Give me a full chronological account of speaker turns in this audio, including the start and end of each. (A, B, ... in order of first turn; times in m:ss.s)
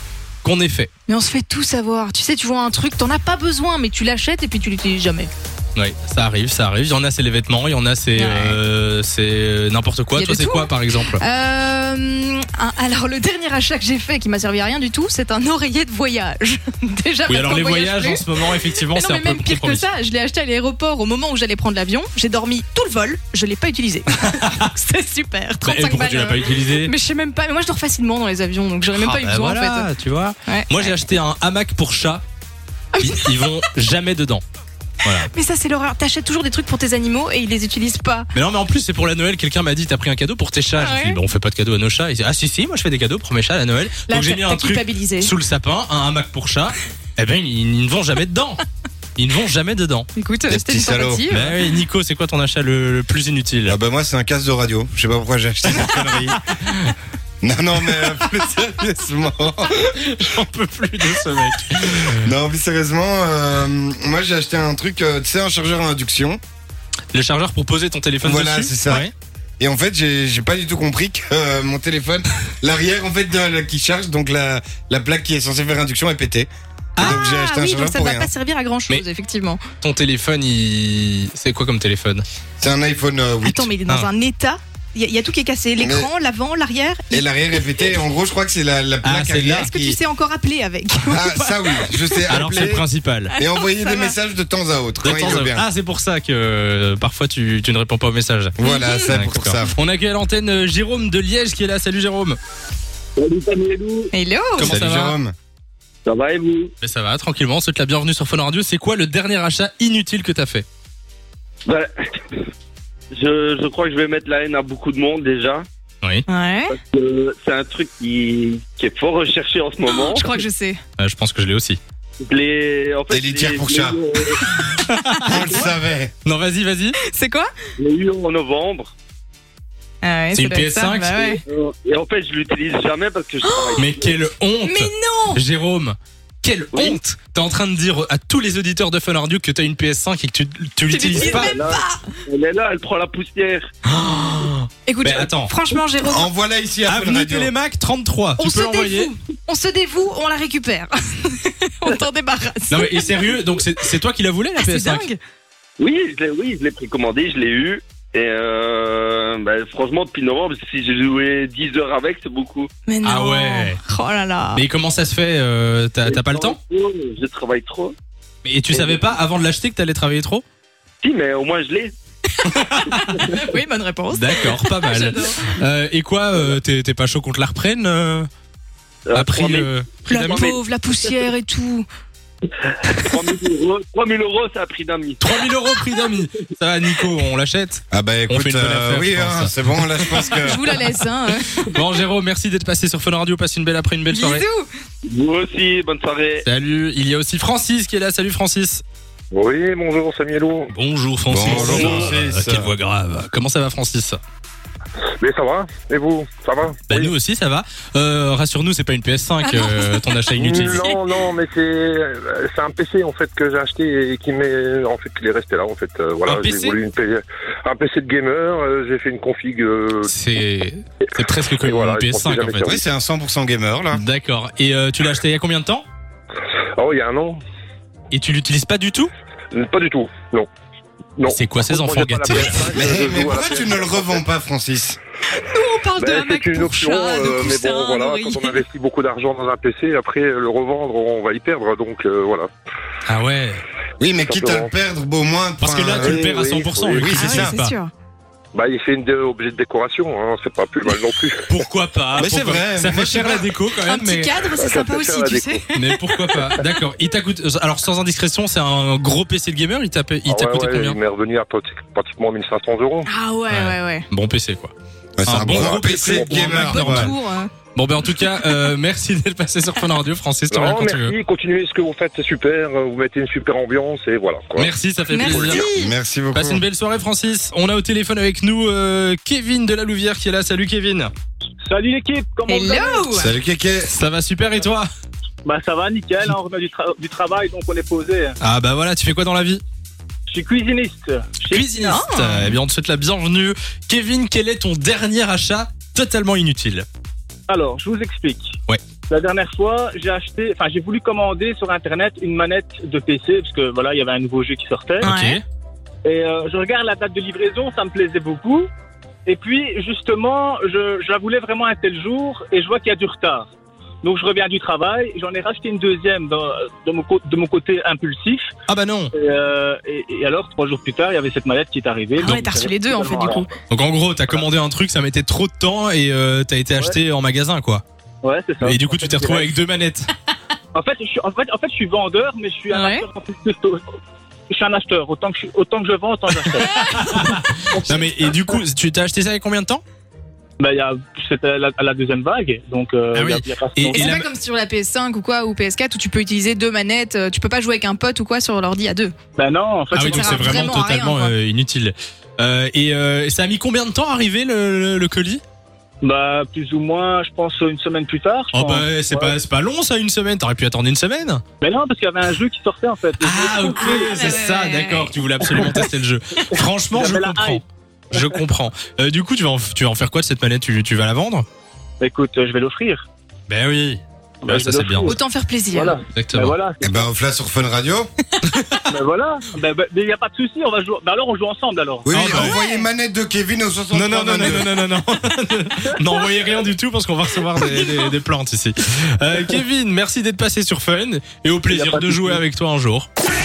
0:00.4-0:00.9 A
0:01.1-0:05.3 B
0:05.8-0:11.2 A
0:08.1-0:08.6 B
0:10.1-0:29.9 B
0:17.3-0:19.9 A
0:24.3-0:24.6 A
0:25.6-0:26.9 A
0:29.0-0:32.2 A
0:30.4-0:31.0 B
0:32.9-0:33.5 B
0:33.0-0:34.4 A
0:35.0-0:35.3 A
0:35.1-0:38.3 B
0:38.3-0:48.6 A
0:40.8-0:41.2 B
0:44.1-0:45.3 B
0:49.2-0:50.1 A
0:50.2-0:51.6 B
0:50.5-0:51.3 C
0:51.3-0:53.8 A
0:53.7-0:56.4 C
0:55.8-0:56.1 A
0:57.4-1:00.0 C
0:59.8-1:02.2 A
1:01.2-1:06.4 C
1:07.1-1:09.1 A
1:08.2-1:16.5 C
1:17.0-1:17.2 A
1:17.0-1:19.6 B
1:17.0-1:18.3 C
1:19.8-1:22.2 A
1:22.6-1:23.7 C
1:23.5-1:27.3 B
1:25.8-1:26.1 C
1:27.1-1:30.0 C
1:29.0-1:29.7 A
1:29.5-1:32.5 B
1:31.1-1:32.8 C
1:32.3-1:33.3 A
1:33.3-1:34.2 B
1:33.4-1:35.7 C
1:35.0-1:38.6 A
1:38.6-1:39.7 C
1:38.6-1:39.2 B
1:39.1-1:42.4 A
1:43.2-1:44.1 D
1:44.1-1:44.7 B
1:44.6-1:45.2 A
1:44.6-1:45.3 C
1:46.0-1:46.7 D
1:46.8-1:50.6 A
1:51.6-1:52.4 D
1:53.1-1:55.7 D
1:56.3-1:56.7 B
1:56.7-2:00.4 D
1:59.8-2:00.8 B
2:01.0-2:01.8 A
2:02.2-2:04.4 D
2:03.1-2:04.0 C
2:04.8-2:05.5 A
2:05.2-2:06.1 C
2:06.2-2:07.0 A
2:07.0-2:07.5 B
2:07.8-2:08.9 D
2:10.0-2:11.4 B
2:10.3-2:11.3 A
2:11.4-2:14.2 D
2:13.4-2:13.8 B
2:13.8-2:21.5 A
2:14.6-2:15.4 B
2:16.7-2:17.0 D
2:20.9-2:22.1 B
2:21.1-2:23.7 D
2:23.9-2:25.5 A
2:24.8-2:26.3 B
2:26.0-2:27.5 C
2:26.9-2:29.1 A
2:28.4-2:33.0 B
2:32.7-2:35.1 A
2:34.6-2:35.2 B
2:35.8-2:42.7 D
2:42.9-2:44.6 B
2:43.0-2:43.8 A
2:44.5-2:46.6 A
2:46.0-2:47.9 D
2:48.4-2:50.4 A
2:48.7-2:49.0 D
2:51.0-2:51.9 D
2:52.3-2:55.5 B
2:52.5-2:52.8 A
2:53.1-2:53.4 D
2:54.1-2:58.3 A
2:59.0-3:01.3 D
2:59.1-3:00.4 A
3:00.0-3:01.9 B
3:02.6-3:05.2 D
3:05.2-3:10.6 A
3:07.9-3:10.6 C
3:10.4-3:11.8 B
3:11.5-3:14.4 A
3:14.1-3:14.7 B
3:15.0-3:16.4 D
3:16.4-3:18.8 A
3:19.3-3:20.7 E
3:20.7-3:24.2 A
3:21.3-3:22.7 C
3:21.4-3:22.0 E
3:25.2-3:27.1 E
3:26.9-3:30.8 A
3:29.4-3:31.0 B
3:30.4-3:40.1 E
3:36.2-3:36.8 A
3:40.0-3:42.8 A
3:41.6-3:42.8 E
3:42.6-3:44.0 C
3:43.9-3:45.8 A
3:46.8-3:47.4 E
3:48.1-3:49.1 A
3:49.5-3:50.5 E
3:51.2-3:54.2 E
3:51.3-3:52.7 A
3:52.4-3:55.0 C
3:55.4-3:58.6 B
3:56.0-4:02.5 E
4:03.0-4:03.6 A
4:04.0-4:07.5 C
4:04.2-4:04.7 E
4:05.6-4:07.8 A
4:05.9-4:07.1 E
4:07.1-4:07.9 B
4:08.5-4:11.4 E
4:11.5-4:14.4 A
4:12.2-4:13.5 C
4:13.8-4:16.4 B
4:14.6-4:15.6 E
4:15.7-4:21.0 A
4:20.3-4:23.1 E
4:23.0-4:24.1 B
4:23.5-4:24.7 A
4:25.2-4:27.1 C
4:25.2-4:27.1 A
4:25.4-4:26.5 E
4:26.4-4:27.5 B
4:27.7-4:31.1 A
4:28.0-4:28.7 B
4:30.5-4:34.7 E
4:34.6-4:35.6 A
4:35.1-4:35.9 B
4:35.3-4:36.6 C
4:36.3-4:41.1 A
4:41.6-4:43.1 F
4:42.5-4:43.3 B
4:43.1-4:43.9 C
4:43.9-4:44.9 A
4:45.4-4:48.4 F
4:48.4-4:49.6 A
4:50.3-4:51.7 F
4:51.5-4:56.8 A
4:51.8-4:52.6 B
4:57.5-4:58.6 F
4:59.1-5:05.1 F
5:05.0-5:05.4 A
5:05.0-5:05.4 B
5:06.0-5:08.7 F
5:09.2-5:13.5 F
5:14.0-5:18.5 F
5:18.7-5:19.1 A
5:19.1-5:23.5 F
5:22.2-5:23.5 B
5:22.2-5:22.5 A
5:23.7-5:27.8 A
5:28.2-5:29.5 F
5:28.6-5:30.1 A
5:30.7-5:33.8 F
5:32.7-5:33.0 B
5:34.5-5:38.5 F
5:36.5-5:39.8 A
5:36.7-5:37.2 B
5:40.6-5:44.1 F
5:43.1-5:44.3 A
5:43.9-5:49.1 B
5:49.4-5:50.6 F
5:49.9-5:51.3 B
5:49.9-5:55.4 A
5:56.0-5:59.4 F
5:58.5-6:01.4 A
6:01.6-6:04.3 F
6:03.2-6:11.4 A
6:03.8-6:05.2 B
6:05.5-6:05.8 F
6:06.9-6:07.6 F
6:12.0-6:13.0 F
6:13.5-6:15.2 A
6:14.4-6:15.2 F
6:15.0-6:16.0 B
6:15.7-6:17.1 F
6:16.1-6:16.5 A
6:16.8-6:18.1 C
6:18.4-6:18.8 A
6:18.9-6:22.1 F
6:22.0-6:24.7 C
6:22.1-6:22.6 A
6:22.2-6:22.8 B
6:23.9-6:33.1 A
6:27.8-6:28.1 B
6:31.7-6:32.4 F